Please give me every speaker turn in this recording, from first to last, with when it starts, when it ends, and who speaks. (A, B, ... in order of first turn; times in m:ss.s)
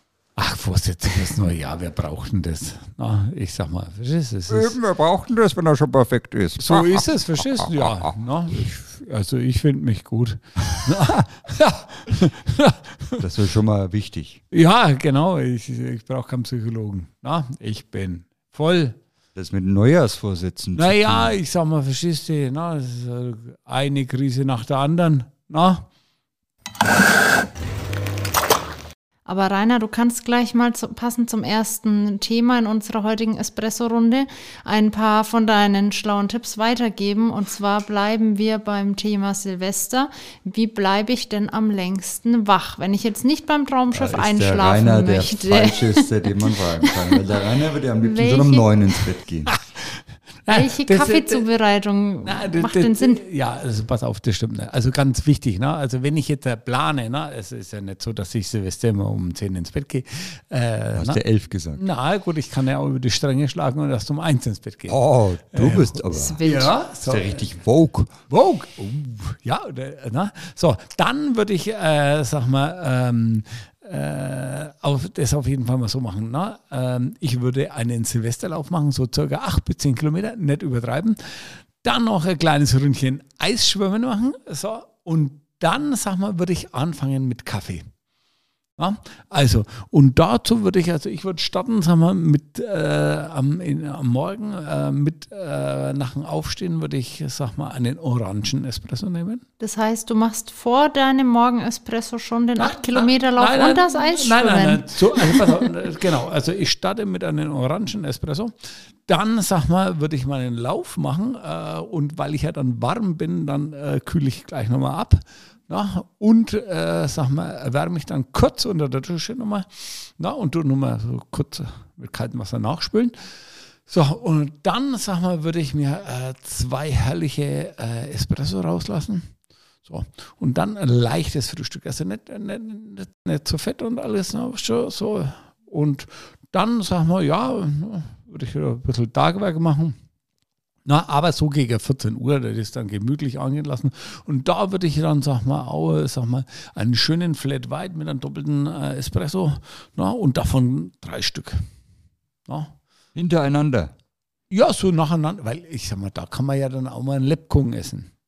0:00.4-0:04.8 A
0:04.5-0:08.2 B
0:06.6-0:13.2 A
0:13.2-0:14.4 B
0:14.5-0:19.0 A
0:19.4-0:21.4 B
0:20.8-0:25.9 A
0:29.3-0:47.4 C
0:43.9-0:49.5 B
0:48.0-0:49.0 C
0:49.5-0:51.4 A
0:50.5-0:53.2 C
0:52.2-1:01.2 A
1:01.0-1:01.8 B
1:01.8-1:05.0 A
1:04.9-1:06.4 B
1:05.5-1:07.4 A
1:06.1-1:06.7 C
1:07.0-1:08.1 B
1:08.3-1:27.9 A
1:28.8-1:39.4 A
1:39.6-1:45.7 C
1:42.6-1:48.5 A
1:49.1-2:03.2 A
2:03.9-2:09.3 A
2:09.8-2:20.0 A
2:20.9-2:31.7 A
2:32.5-2:32.8 A
2:33.2-2:33.9 B
2:34.5-2:38.1 A